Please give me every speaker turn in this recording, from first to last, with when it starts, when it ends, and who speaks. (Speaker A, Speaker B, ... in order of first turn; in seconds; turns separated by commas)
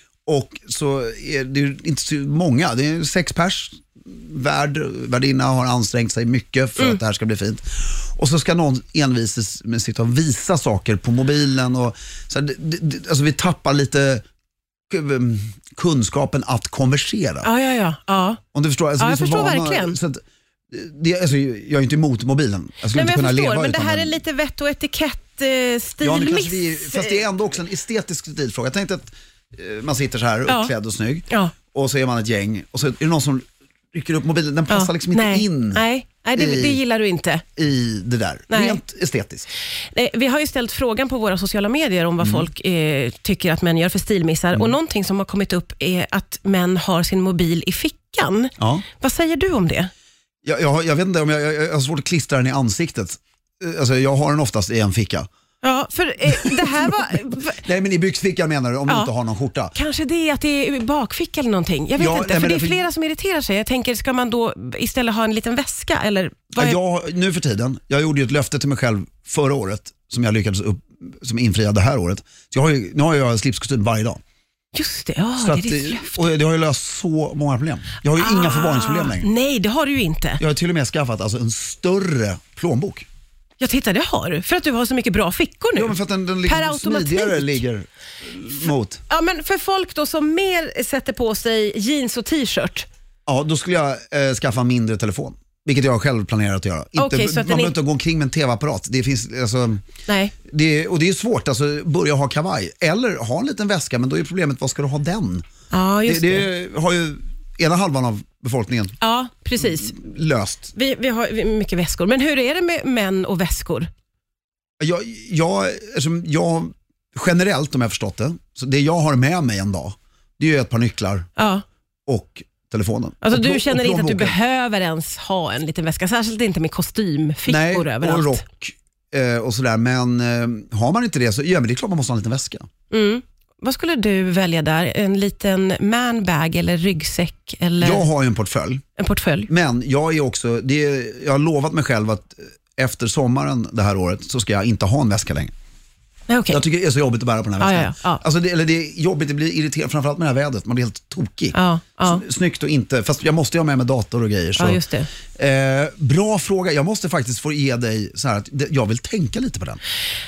Speaker A: 0.3-14.2, Speaker A: 14.9-17.5, Speaker B: 17.4-18.4, Speaker A: 18.5-24.2, Speaker B: 19.0-20.0, Speaker B: 22.9-27.2, Speaker A: 26.0-35.8, Speaker B: 30.5-30.7, Speaker B: 34.7-37.4, Speaker A: 36.4-36.8, Speaker A: 37.6-39.5, Speaker B: 38.5-38.8, Speaker B: 39.9-49.9, Speaker A: 42.2-42.5, Speaker A: 48.6-48.9, Speaker A: 50.4-55.3, Speaker B: 55.6-57.6, Speaker A: 56.3-56.9, Speaker A: 57.5-59.8, Speaker B: 59.8-66.8, Speaker A: 62.0-62.9, Speaker A: 66.5-74.2, Speaker B: 74.7-76.3, Speaker A: 75.4-79.3, Speaker B: 78.2-80.4, Speaker A: 80.4-83.1, Speaker B: 83.6-86.0, Speaker A: 85.8-89.0, Speaker B: 86.5-87.6, Speaker B: 89.1-92.9, Speaker A: 93.3-99.8, Speaker B: 97.0-97.7, Speaker B: 100.1-100.3, Speaker A: 100.5-105.5, Speaker B: 105.7-106.5, Speaker A: 106.1-109.0, Speaker B: 109.0-110.0, Speaker A: 109.6-110.7, Speaker B: 110.8-113.9, Speaker A: 114.8-121.3, Speaker B: 121.4-121.6, Speaker A: 122.1-124.4, Speaker B: 123.2-128.4, Speaker A: 127.5-132.7, Speaker B: 132.9-138.0, Speaker A: 137.8-138.8, Speaker B: 139.0-139.5, Speaker A: 139.5-145.5, Speaker B: 146.3-146.6, Speaker A: 146.5-154.8, Speaker B: 147.6-148.2, Speaker B: 151.5-152.2, Speaker B: 154.6-155.1, Speaker A: 155.4-159.8